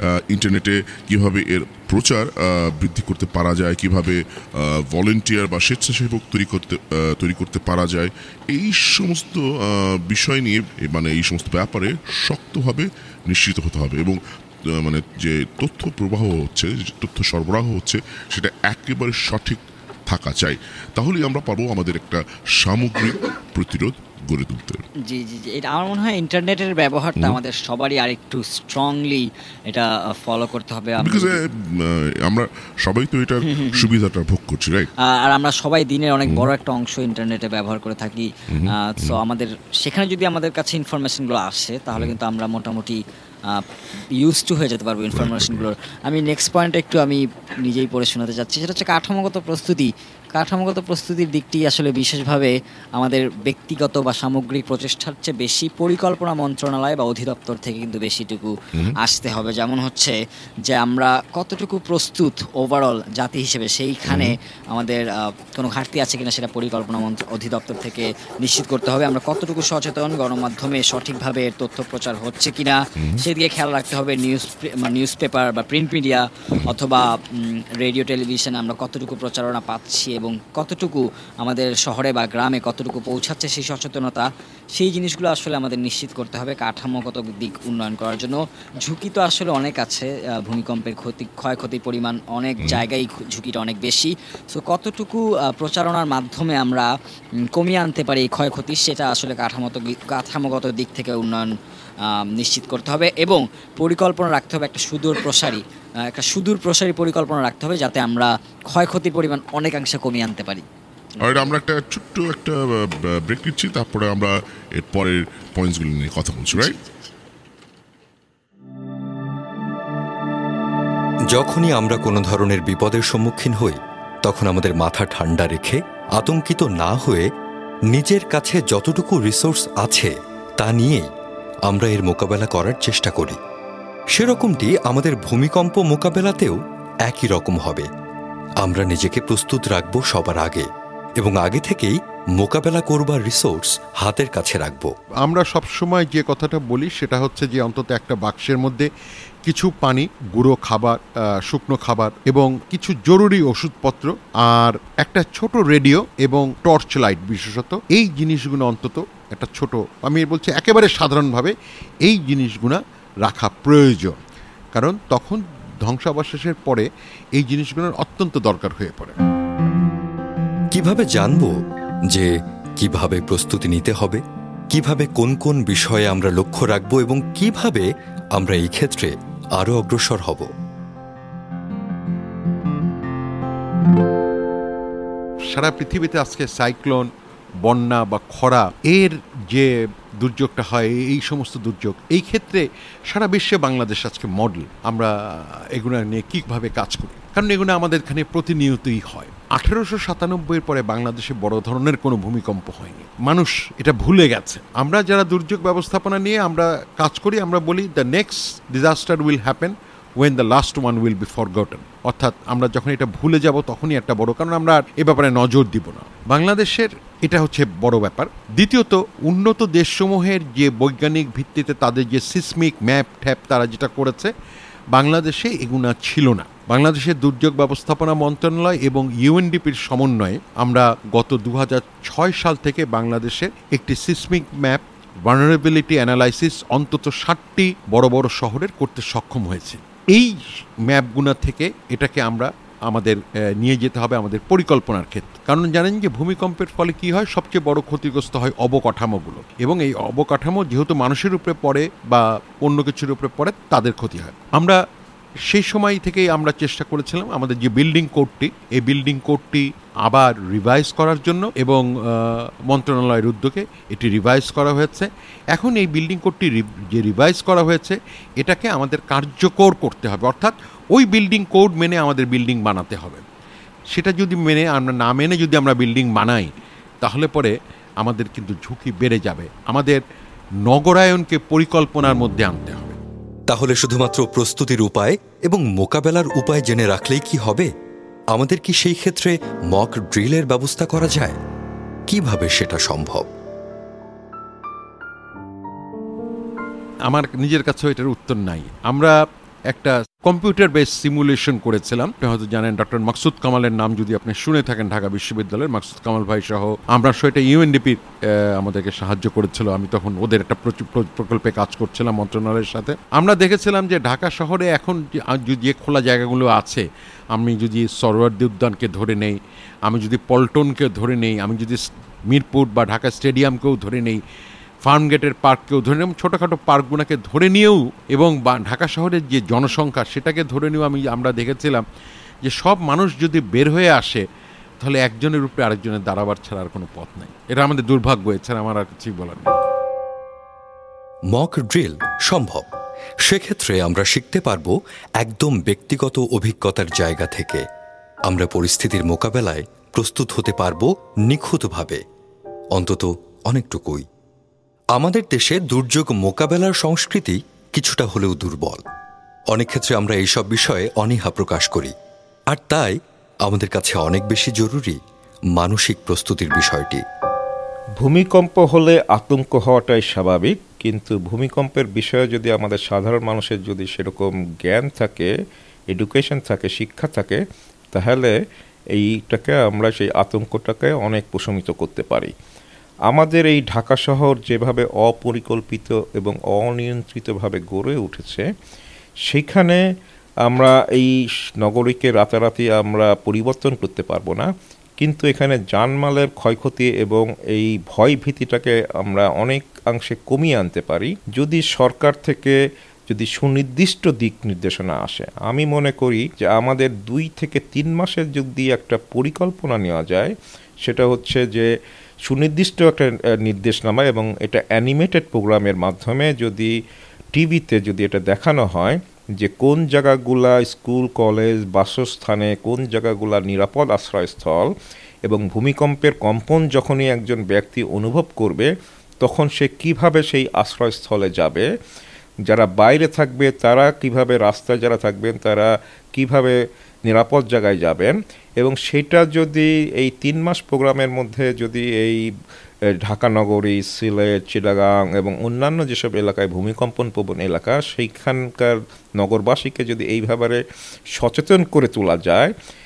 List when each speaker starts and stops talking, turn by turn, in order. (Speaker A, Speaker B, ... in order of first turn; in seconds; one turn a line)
Speaker A: 0.3-14.2
Speaker A: 14.7-24.8
Speaker B: 25.0-31.4
Speaker A: 31.0-34.9
Speaker B: 33.5-33.9
Speaker B: 35.1-43.0
Speaker A: 38.5-39.2
Speaker B: 44.2-60.1
Speaker A: 45.1-45.7
Speaker B: 60.7-96.9
Speaker A: 64.1-64.3
Speaker B: 97.5-101.5
Speaker B: 102.4-105.6
Speaker B: 106.1-110.6
Speaker A: 111.2-116.8
Speaker C: 121.3-127.3
Speaker C: 127.9-131.1
Speaker C: 131.7-133.4
Speaker C: 134.1-137.9
Speaker C: 138.6-140.7
Speaker C: 141.2-144.9
Speaker D: 145.2-148.9
Speaker D: 149.4-161.5
Speaker D: 162.0-164.2
Speaker D: 164.7-169.2
Speaker C: 170.7-171.5
Speaker C: 172.1-180.5
Speaker D: 185.5-187.1
Speaker D: 187.6-189.7
Speaker D: 190.2-195.1
Speaker D: 195.8-224.3
Speaker D: 224.9-240.3
Speaker D: 240.9-254.8
Speaker D: 255.5-273.2
Speaker D: 273.9-276.5
Speaker D: 277.0-280.0
Speaker D: 280.7-283.0
Speaker C: 283.5-287.7
Speaker C: 288.3-291.4
Speaker C: 292.1-293.3
Speaker D: 297.1-299.2
Speaker D: 299.7-308.0
Speaker D: 308.6-324.2
Speaker D: 324.8-331.8
Speaker D: 332.4-334.2
Speaker D: 334.8-339.5
Speaker C: 341.3-342.7
Speaker C: 343.2-347.6
Speaker C: 348.3-352.0
Speaker C: 352.7-354.0
Speaker C: 354.9-358.8
Speaker C: 359.5-361.9
Speaker C: 362.5-362.9
Speaker C: 363.4-365.0
Speaker C: 365.6-367.0
Speaker E: 368.0-375.3
Speaker E: 375.9-377.4
Speaker E: 377.9-378.3
Speaker E: 378.9-382.3
Speaker E: 383.1-388.4
Speaker E: 389.3-389.8
Speaker E: 390.5-391.1
Speaker E: 391.6-394.5
Speaker E: 395.0-402.5
Speaker E: 403.1-410.3
Speaker E: 410.8-411.7
Speaker E: 412.3-416.7
Speaker E: 417.3-424.7
Speaker E: 425.2-428.7
Speaker E: 429.2-431.7
Speaker E: 432.5-436.6
Speaker E: 437.1-442.2
Speaker E: 443.0-450.6
Speaker E: 451.2-452.5